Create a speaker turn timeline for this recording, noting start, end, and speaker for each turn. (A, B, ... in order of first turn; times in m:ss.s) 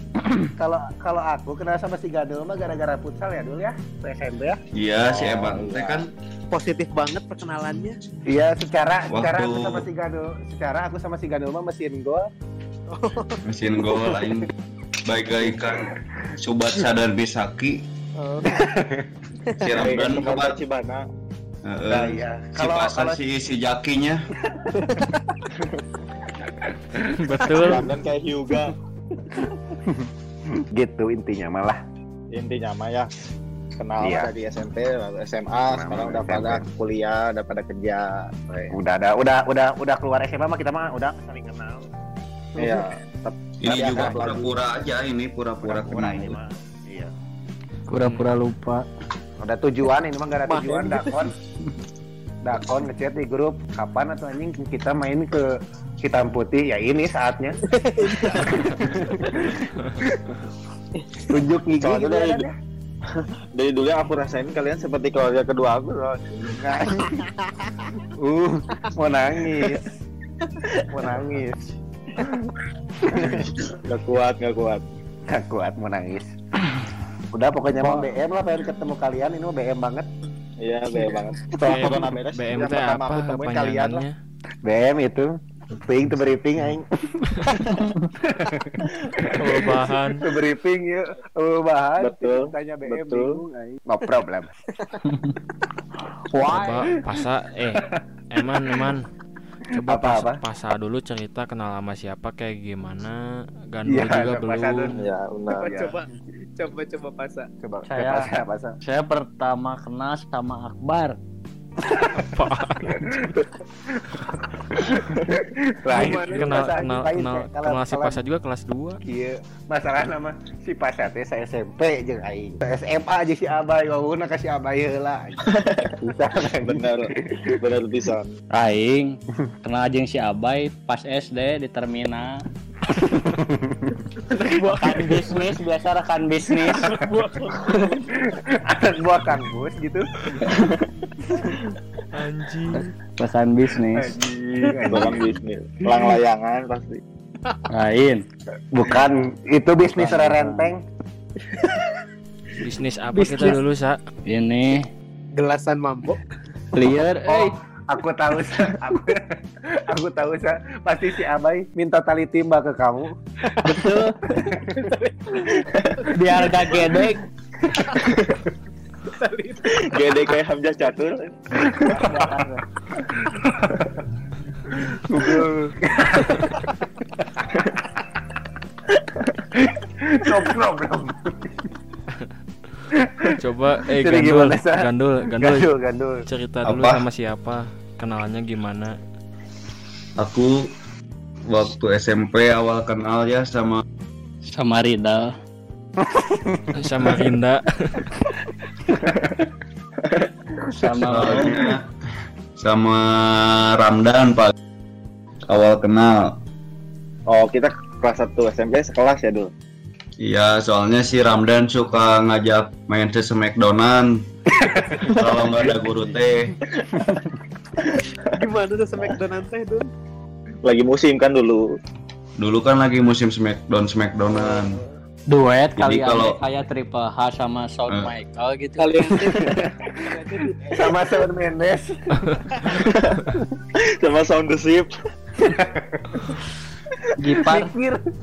0:00.4-0:04.6 A
0:04.7-0:06.1 B
0:05.0-0:06.0 C
0:06.5-0:08.0 D
0:08.3-0:12.3 A
0:09.1-0:09.9 B
0:12.9-0:13.4 D
0:13.4-0:14.5 B
0:15.0-0:17.8 B
0:18.2-0:18.7 D
0:18.5-0:19.0 A
0:19.5-0:19.7 D
0:19.6-0:20.6 B
0:19.8-0:21.0 C
0:21.6-0:24.2 B
0:21.9-0:23.2 A
0:24.5-0:25.1 A
0:26.5-0:27.0 A
0:27.1-0:27.9 E
0:27.6-0:28.7 C
0:29.2-0:30.1 A
0:30.7-0:31.8 A
0:32.3-0:33.1 C
0:33.8-0:38.7 C
0:34.0-0:34.3 A
0:35.7-0:36.6 A
0:38.7-0:41.9 A
0:42.6-0:44.5 C
0:43.6-0:46.4 B
0:43.7-0:44.5 A
0:45.6-0:47.1 A
0:47.9-0:48.9 F
0:48.0-0:48.3 E
0:49.4-0:51.3 A
0:50.5-0:51.2 D
0:52.4-0:55.5 A
0:56.0-0:57.6 A
0:57.6-0:58.6 D
0:58.2-1:00.3 A
1:01.2-1:02.5 A
1:01.8-1:02.5 C
1:03.5-1:07.0 C
1:06.8-1:07.1 A
1:07.2-1:07.5 D
1:08.2-1:10.0 A
1:10.9-1:11.6 A
1:13.0-1:13.6 A
1:13.8-1:14.8 C
1:15.3-1:16.3 A
1:17.3-1:20.1 A
1:20.6-1:24.0 C
1:21.6-1:24.2 E
1:24.6-1:29.4 A
1:29.3-1:30.2 E
1:30.2-1:34.5 A
1:32.0-1:33.3 C
1:35.0-1:35.4 F
1:36.4-1:36.6 F
1:36.4-1:39.0 E
1:39.7-1:43.2 E
1:39.8-1:40.4 A
1:43.7-1:45.0 E
1:43.9-1:45.0 A
1:45.0-1:45.7 C
1:45.5-1:47.5 D
1:45.7-1:45.9 A
1:47.6-1:48.8 A
1:47.8-1:48.3 F
1:48.8-1:51.2 F
1:51.9-1:52.2 A
1:52.1-1:53.4 E
1:52.9-1:53.4 A
1:53.9-1:58.2 A
1:55.9-1:59.0 E
1:59.0-2:07.4 A
2:05.5-2:06.0 C
2:06.6-2:07.1 C
2:07.6-2:08.3 C
2:08.5-2:12.3 F
2:12.9-2:14.0 A
2:14.2-2:15.5 D
2:14.8-2:17.0 F
2:16.5-2:17.9 D
2:18.1-2:20.1 A
2:20.5-2:20.8 C
2:21.3-2:21.6 A
2:22.1-2:22.8 E
2:22.8-2:24.2 F
2:23.9-2:25.3 A
2:24.8-2:27.0 C
2:27.7-2:28.3 F
2:28.7-2:30.8 A
2:29.8-2:30.8 F
2:32.6-2:34.0 E
2:33.1-2:33.6 D
2:34.3-2:34.9 F
2:35.3-2:36.2 D
2:36.7-2:37.5 F
2:37.2-2:39.4 A
2:39.9-2:44.6 A
2:43.6-2:44.5 F
2:44.6-2:46.7 D
2:46.2-2:47.2 F
2:48.1-2:48.4 C
2:49.1-2:49.7 D
2:49.8-2:52.3 C
2:51.9-2:52.3 A
2:51.9-2:52.6 F
2:53.1-2:54.0 A
2:53.2-2:53.6 C
2:54.9-2:57.5 A
2:59.6-3:01.6 A
3:03.4-3:05.7 E
3:04.0-3:06.2 A
3:06.3-3:08.9 E
3:06.6-3:07.1 B
3:10.2-3:10.7 B
3:11.5-3:13.8 B
3:14.5-3:15.3 F
3:16.1-3:16.6 A
3:16.8-3:18.1 E
3:18.9-3:19.1 A
3:20.8-3:21.5 F
3:21.1-3:21.8 B
3:22.6-3:24.5 B
3:25.5-3:26.4 B
3:27.3-3:29.5 C
3:30.2-3:34.2 B
3:34.6-3:35.2 A
3:35.2-3:36.5 B
3:37.0-3:37.3 A
3:38.4-3:39.9 D
3:40.6-3:41.7 C
3:42.4-3:44.8 B
3:45.3-3:49.2 F
3:45.8-3:46.4 B
3:47.9-3:48.1 B
3:48.8-3:51.3 D
3:49.3-3:49.6 A
3:50.8-3:52.9 A
3:52.7-3:53.2 C
3:53.8-3:54.9 C
3:55.4-3:56.4 A
3:57.2-3:57.7 F
3:57.4-3:58.0 A